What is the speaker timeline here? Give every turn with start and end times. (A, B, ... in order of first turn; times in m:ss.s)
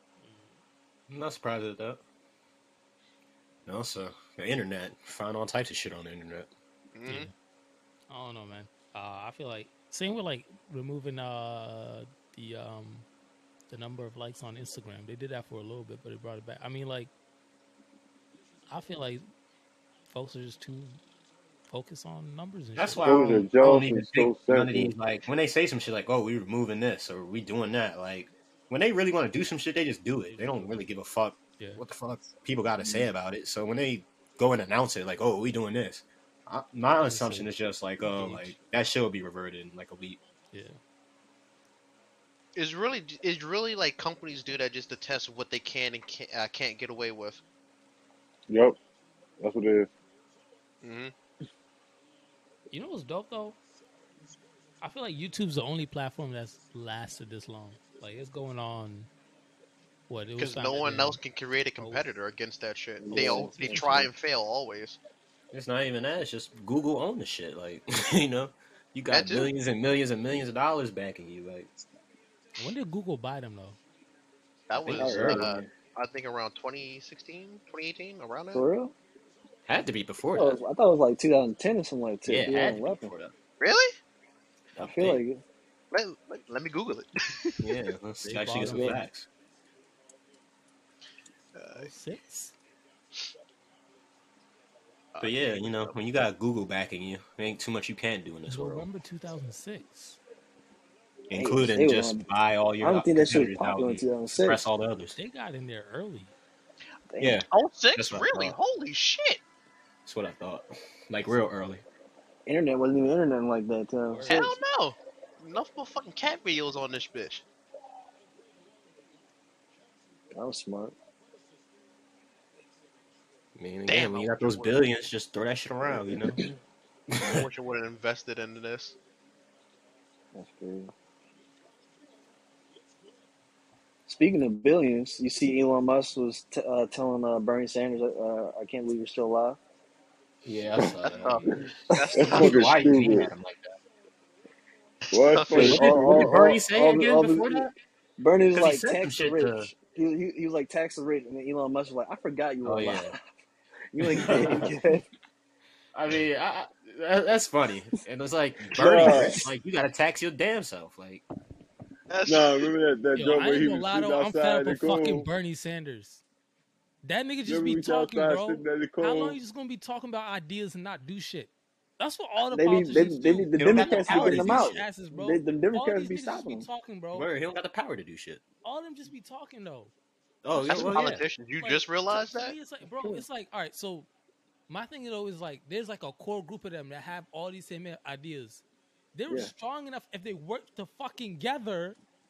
0:00.2-0:00.6 A
0:01.1-0:02.0 B
0:03.6-0:06.5 B
0:06.9-0:07.3 C
0:07.0-0:07.3 A
0:08.1-0:13.1 A
0:13.7-0:17.1 A
0:18.7-0:19.2 A
0:20.1-0:21.0 A
0:21.7-0:23.4 A
0:22.8-0:40.2 B
0:23.0-0:24.9 D
0:30.3-0:30.8 A
0:37.0-0:38.5 A
0:40.5-0:40.8 A
0:42.5-0:47.4 C
0:48.5-0:48.8 D
0:49.4-0:49.9 D
0:50.8-0:51.1 C
0:52.7-0:53.6 A
0:54.8-0:59.1 A
1:00.1-1:01.2 A
1:00.4-1:05.0 C
1:01.8-1:02.0 A
1:03.0-1:04.1 E
1:03.1-1:04.1 A
1:05.5-1:11.8 B
1:09.1-1:09.5 C
1:12.6-1:13.8 A
1:14.7-1:18.7 C
1:14.7-1:15.6 B
1:14.9-1:15.7 E
1:18.5-1:18.9 E
1:19.7-1:20.6 B
1:20.3-1:23.1 E
1:22.2-1:23.3 B
1:23.6-1:24.0 C
1:24.8-1:25.2 B
1:24.8-1:25.4 E
1:25.9-1:27.7 C
1:27.6-1:29.3 B
1:28.2-1:29.0 A
1:28.7-1:29.0 E
1:31.5-1:31.9 C
1:31.7-1:32.5 A
1:35.1-1:36.0 C
1:35.2-1:38.8 B
1:38.5-1:40.2 A
1:41.3-1:45.2 B
1:41.3-1:42.2 E
1:42.8-1:44.6 E
1:45.1-1:46.3 A
1:47.1-1:47.4 E
1:47.2-1:48.6 B
1:47.5-1:49.4 C
1:50.0-1:51.8 B
1:52.4-1:54.6 E
1:54.0-1:54.6 A
1:54.2-1:57.4 C
2:00.3-2:00.9 E
2:03.5-2:06.4 B
2:03.9-2:04.8 C
2:05.9-2:06.5 E
2:07.1-2:07.5 B
2:07.2-2:09.0 C
2:10.3-2:10.9 E
2:14.1-2:19.6 E
2:20.4-2:21.6 B
2:21.0-2:23.0 C
2:21.1-2:21.4 A
2:21.9-2:22.4 E
2:22.1-2:23.3 D
2:22.1-2:23.7 B
2:25.1-2:26.6 D
2:25.1-2:25.8 C
2:25.5-2:33.2 E
2:25.5-2:27.7 B
2:28.5-2:29.7 B
2:32.6-2:33.2 B
2:33.9-2:35.0 E
2:34.0-2:34.7 B
2:35.9-2:41.2 B
2:38.7-2:39.5 D
2:39.0-2:39.5 E
2:42.1-2:42.7 C
2:42.2-2:45.3 D
2:43.2-2:46.2 A
2:47.0-2:57.3 A
2:47.4-2:49.4 D
2:52.5-2:56.7 E
2:53.6-2:54.8 B
2:57.1-2:58.4 B
2:58.6-2:59.9 A
3:00.4-3:01.2 B
3:00.6-3:02.5 C
3:00.6-3:04.1 A
3:04.7-3:08.6 A
3:09.1-3:12.0 A